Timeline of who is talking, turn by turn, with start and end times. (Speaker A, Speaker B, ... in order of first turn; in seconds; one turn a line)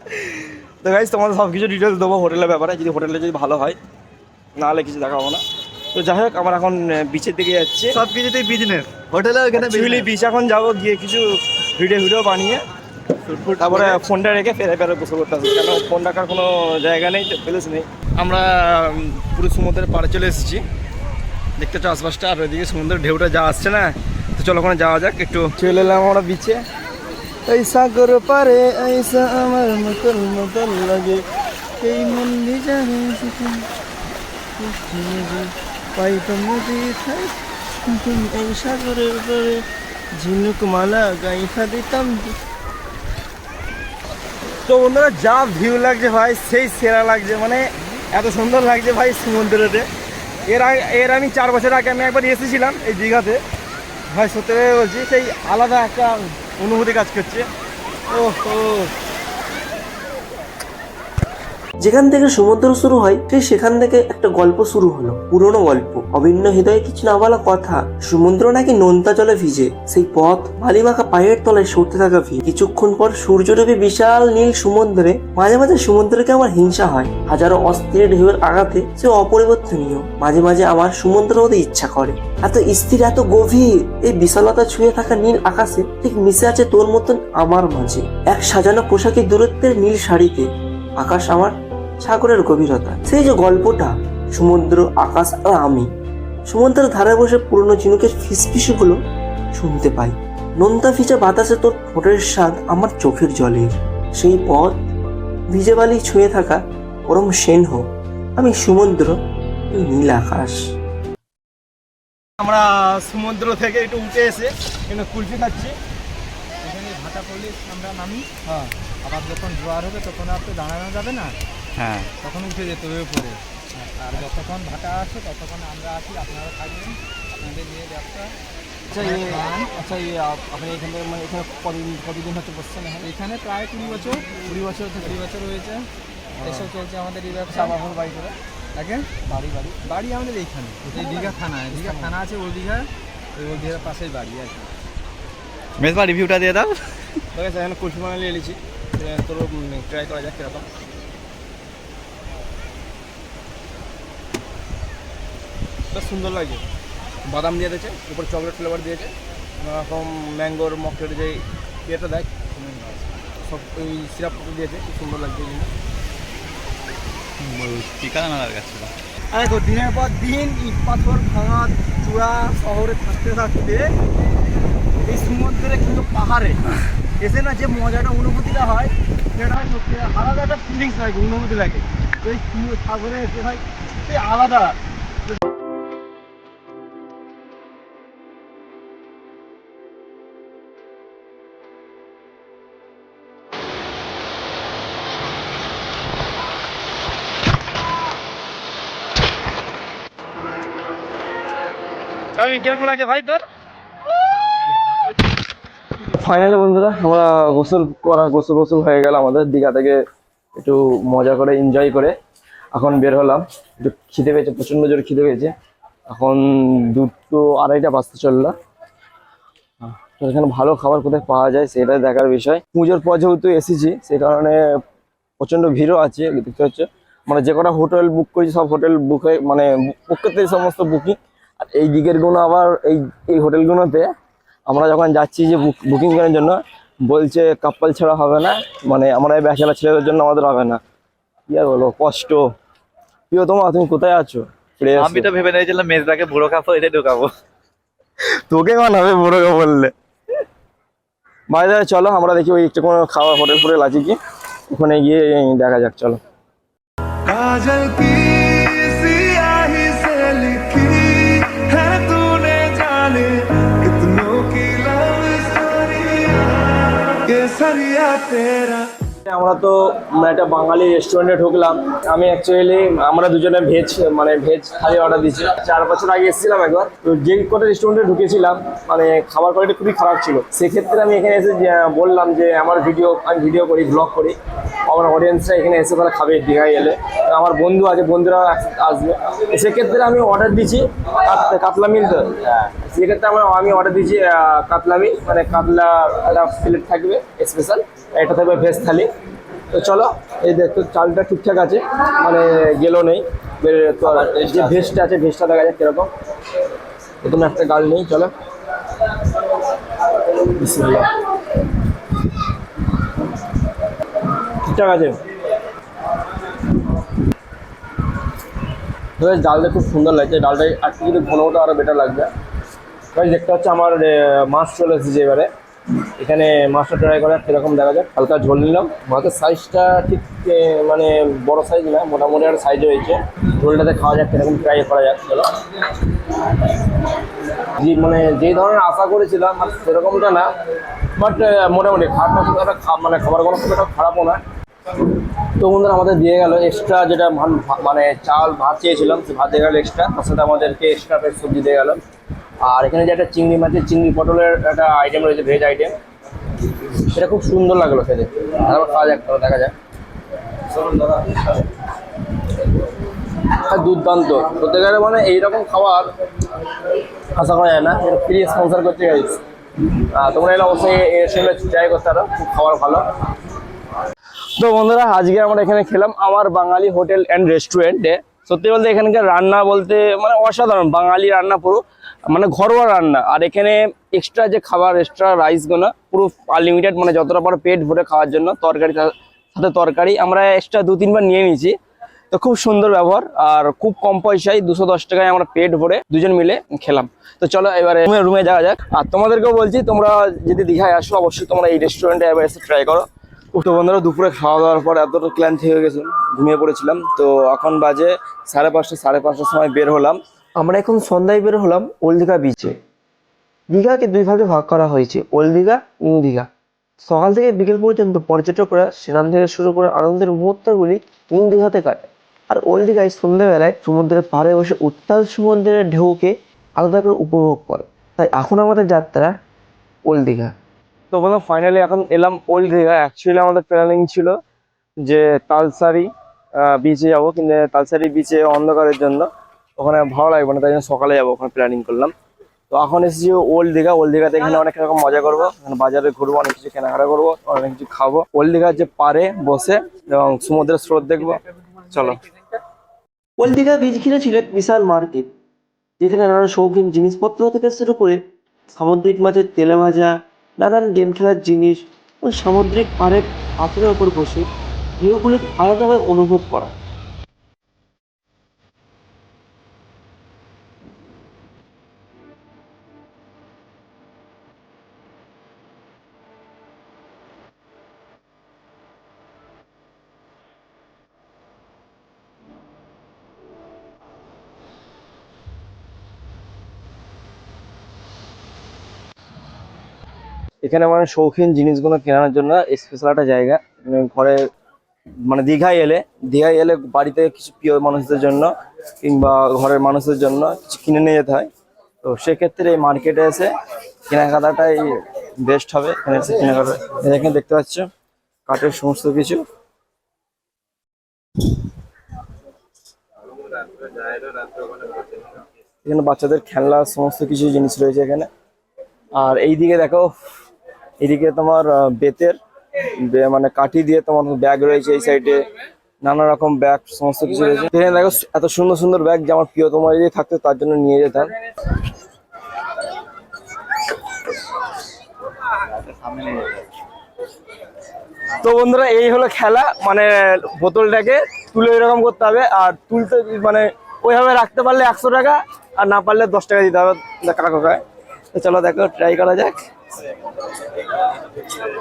Speaker A: 0.1-3.8
Speaker A: 4.5-5.4
Speaker A: 5.9-8.0
Speaker B: 7.9-10.1
Speaker A: 9.6-12.6
Speaker B: 13.2-14.0
Speaker A: 13.6-20.6
Speaker A: 21.6-26.6
Speaker A: 27.4-31.2
Speaker A: 31.8-33.7
Speaker A: 34.5-37.3
Speaker A: 37.8-42.4
Speaker A: 44.6-49.9
Speaker A: 50.4-53.4
Speaker A: 54.1-57.5
Speaker A: 58.1-58.9
Speaker C: 61.8-90.5
Speaker C: 91.0-95.9
Speaker C: 96.5-99.0
Speaker C: 99.5-104.8
Speaker C: 105.5-107.8
Speaker C: 108.4-109.2
Speaker C: 109.7-110.6
Speaker A: 112.4-115.7
Speaker D: 116.6-118.3
Speaker A: 118.5-118.7
Speaker D: 119.0-121.4
Speaker D: 122.2-128.4
Speaker A: 128.9-133.1
Speaker D: 129.0-129.7
Speaker D: 133.0-135.9
Speaker A: 133.9-135.1
Speaker A: 136.3-136.7
Speaker D: 136.4-137.8
Speaker A: 137.4-138.3
Speaker D: 138.8-144.7
Speaker A: 139.3-139.6
Speaker A: 140.9-142.2
Speaker B: 145.8-146.8
Speaker A: 147.3-150.7
Speaker A: 155.9-156.6
Speaker A: 157.2-165.7
Speaker A: 169.3-173.9
Speaker A: 175.1-176.6
Speaker A: 177.2-181.8
Speaker A: 182.3-183.4
Speaker A: 202.4-203.4
Speaker A: 206.0-210.0
Speaker A: 210.5-212.1
Speaker A: 212.7-215.5
Speaker A: 216.1-218.5
Speaker A: 219.8-224.6
Speaker A: 225.4-234.1
Speaker A: 234.7-240.8
Speaker A: 241.5-242.4
Speaker A: 243.3-245.3
Speaker B: 244.9-247.3
Speaker A: 248.5-249.9
Speaker A: 251.5-254.2
Speaker A: 254.7-256.2
Speaker E: 257.3-268.9
Speaker A: 269.2-299.1
Speaker A: 299.7-306.1
Speaker A: 307.2-308.3
Speaker A: 310.3-311.1
Speaker A: 314.6-315.2
Speaker A: 319.2-322.3
Speaker A: 323.1-325.5
Speaker A: 326.1-335.6
Speaker A: 337.7-340.5
Speaker A: 341.1-344.4
Speaker A: 345.6-352.0
Speaker A: 352.6-356.0
Speaker A: 356.9-359.7
Speaker A: 360.7-361.6
Speaker A: 363.4-366.1
Speaker A: 367.3-369.4
Speaker A: 370.1-373.1
Speaker A: 374.6-391.8
Speaker A: 392.3-410.2
Speaker C: 410.6-412.7
Speaker C: 413.7-416.5
Speaker C: 417.0-429.3
Speaker C: 430.1-430.5
Speaker A: 431.1-434.4
Speaker A: 435.0-442.1
Speaker A: 442.7-452.2
Speaker C: 453.4-455.3
Speaker C: 456.0-458.2
Speaker C: 458.7-464.5
Speaker C: 465.0-466.7
Speaker A: 490.6-494.4
Speaker A: 495.3-498.5
Speaker A: 499.0-501.5
Speaker A: 502.0-503.5
Speaker A: 504.1-507.9
Speaker A: 508.5-509.4
Speaker A: 513.8-515.2
Speaker A: 515.8-518.3
Speaker A: 519.1-520.1
Speaker A: 521.0-525.4
Speaker A: 526.0-531.3
Speaker A: 538.3-547.8
Speaker A: 548.3-549.6